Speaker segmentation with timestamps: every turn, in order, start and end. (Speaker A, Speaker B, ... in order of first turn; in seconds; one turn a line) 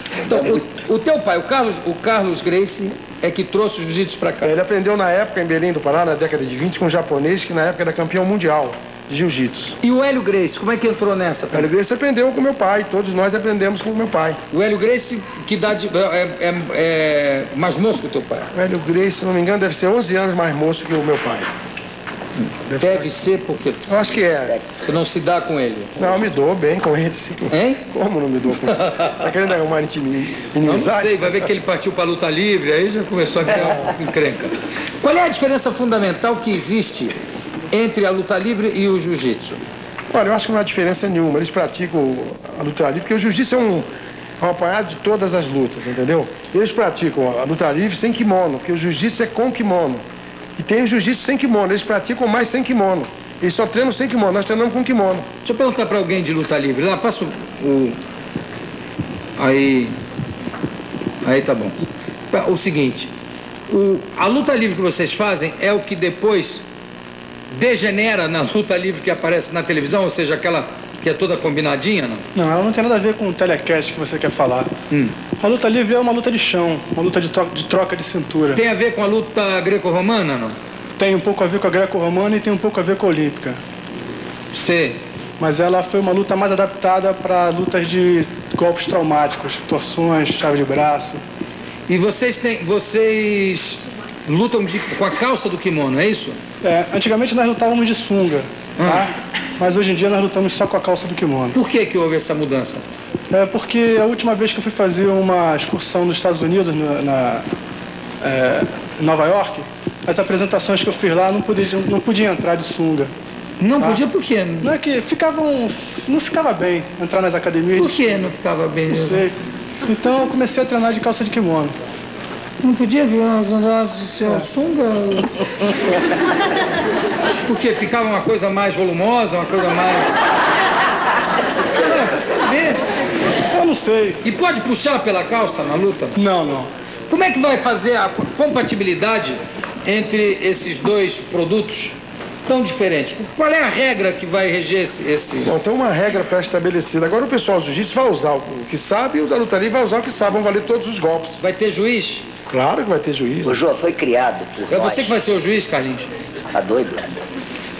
Speaker A: 0.2-4.5
Speaker B: 4.4-9.8
Speaker A: 9.8-11.7
Speaker B: 11.5-14.4
Speaker A: 14.5-18.5
Speaker B: 18.5-21.5
Speaker B: 22.7-23.1
Speaker A: 22.8-24.1
Speaker B: 23.9-24.5
Speaker C: 24.4-24.9
Speaker A: 24.8-25.9
Speaker B: 26.0-31.5
Speaker A: 27.5-27.8
Speaker A: 28.8-29.1
Speaker A: 30.6-37.1
Speaker A: 37.7-39.6
Speaker B: 40.1-43.9
Speaker B: 44.4-50.0
Speaker B: 50.5-55.2
Speaker A: 55.4-58.0
Speaker A: 59.4-59.9
Speaker A: 61.2-61.8
Speaker A: 62.3-63.1
Speaker A: 63.7-66.6
Speaker A: 67.5-72.2
Speaker D: 72.3-74.7
Speaker A: 74.9-75.2
Speaker D: 75.4-78.6
Speaker A: 78.5-80.5
Speaker D: 81.0-83.6
Speaker A: 84.5-85.0
Speaker D: 85.4-91.2
Speaker A: 91.9-96.4
Speaker D: 96.6-101.5
Speaker A: 98.8-99.1
Speaker A: 101.5-102.8
Speaker D: 103.3-107.4
Speaker D: 108.2-113.1
Speaker A: 113.6-114.8
Speaker D: 114.6-118.0
Speaker A: 117.7-119.3
Speaker D: 119.0-121.8
Speaker A: 122.6-125.4
Speaker A: 127.3-130.1
Speaker A: 131.7-132.8
Speaker D: 133.5-134.2
Speaker A: 134.2-136.2
Speaker D: 136.2-136.7
Speaker A: 137.1-145.6
Speaker B: 145.4-151.4
Speaker A: 151.4-152.2
Speaker B: 152.4-153.6
Speaker C: 153.4-155.2
Speaker A: 154.7-156.1
Speaker C: 156.5-157.1